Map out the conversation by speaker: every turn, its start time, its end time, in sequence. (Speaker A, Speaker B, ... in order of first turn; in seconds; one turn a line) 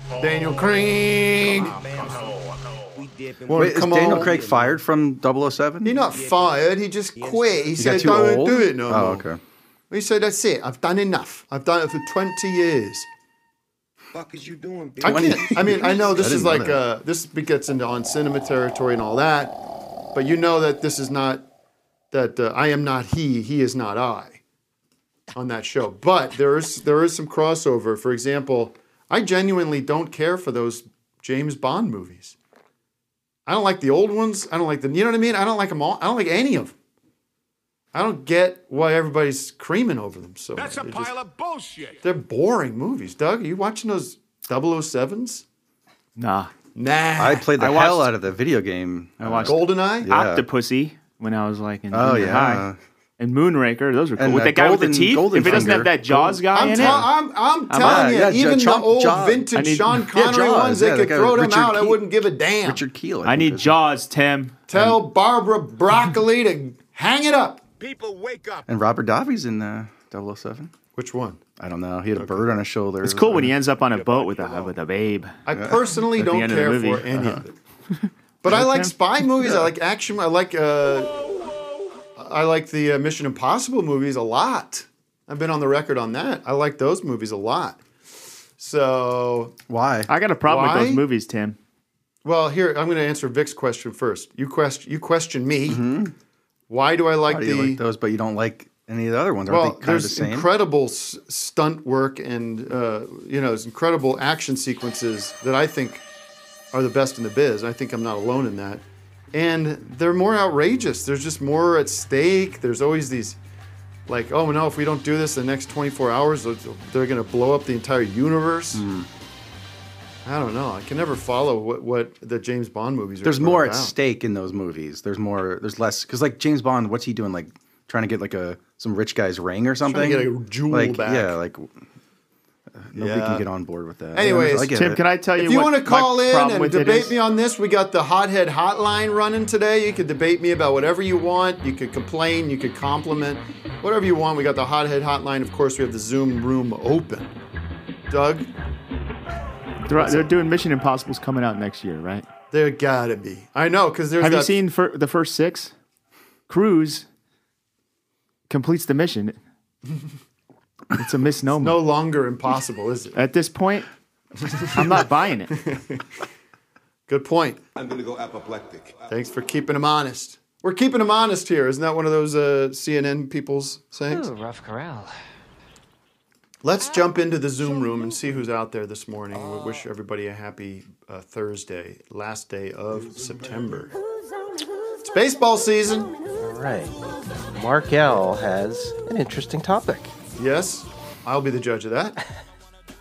Speaker A: 0.2-1.8
Speaker B: 1.4-4.8
Speaker A: 3.5-4.4
Speaker C: 3.5-6.0
Speaker A: 5.8-9.3
Speaker B: 6.1-7.9
Speaker C: 7.8-9.4
Speaker A: 9.9-13.1
Speaker B: 14.1-15.7
Speaker A: 15.0-19.6
Speaker C: 15.0-16.8
Speaker A: 20.1-21.4
Speaker A: 22.1-24.4
Speaker A: 25.4-32.4
Speaker A: 33.5-36.8
Speaker A: 37.9-41.2
Speaker B: 40.6-42.0
Speaker A: 42.0-45.5
Speaker D: 46.2-46.5
Speaker A: 46.8-47.5
Speaker C: 47.2-50.5
Speaker D: 47.6-48.1
Speaker D: 49.2-52.7
Speaker A: 49.5-50.1
Speaker C: 51.9-52.8
Speaker D: 53.2-57.1
Speaker C: 54.2-57.1
Speaker A: 55.4-55.8
Speaker A: 56.5-62.8
Speaker D: 57.7-58.1
Speaker C: 57.8-62.0
Speaker D: 59.5-60.0
Speaker C: 62.6-63.8
Speaker D: 63.2-64.7
Speaker A: 64.7-67.6
Speaker C: 64.7-65.0
Speaker B: 67.8-68.7
Speaker C: 68.7-70.7
Speaker A: 71.0-71.4
Speaker C: 71.6-73.5
Speaker A: 72.2-72.4
Speaker D: 73.0-75.4
Speaker B: 73.7-74.8
Speaker A: 75.5-77.5
Speaker D: 76.1-77.4
Speaker A: 78.4-81.3
Speaker D: 78.5-78.9
Speaker A: 82.2-87.8
Speaker A: 88.6-89.5
Speaker C: 89.7-90.1
Speaker D: 90.1-91.6
Speaker A: 90.5-91.0
Speaker A: 92.2-95.8
Speaker C: 95.7-96.1
Speaker A: 96.7-97.8
Speaker C: 97.3-100.5
Speaker A: 99.5-106.0
Speaker A: 106.7-113.4
Speaker A: 114.1-118.8
Speaker C: 118.7-119.1
Speaker A: 120.2-124.0
Speaker C: 123.2-131.7
Speaker A: 129.8-131.4
Speaker C: 132.8-135.0
Speaker A: 132.9-133.5
Speaker A: 134.1-134.8
Speaker D: 134.7-137.2
Speaker A: 135.4-147.3
Speaker A: 148.1-148.5
Speaker D: 149.9-152.3
Speaker A: 149.9-150.3
Speaker A: 152.5-154.6
Speaker D: 154.2-155.7
Speaker D: 156.5-157.1
Speaker D: 158.5-159.4
Speaker D: 160.9-161.8
Speaker A: 161.6-163.2
Speaker D: 163.2-163.9
Speaker A: 164.5-164.9
Speaker D: 164.7-165.5
Speaker A: 165.5-166.1
Speaker A: 167.1-167.6
Speaker B: 167.8-169.2
Speaker A: 169.1-174.3
Speaker A: 176.6-183.9
Speaker A: 185.0-186.1
Speaker E: 186.4-187.0
Speaker E: 187.5-190.1
Speaker A: 190.4-192.2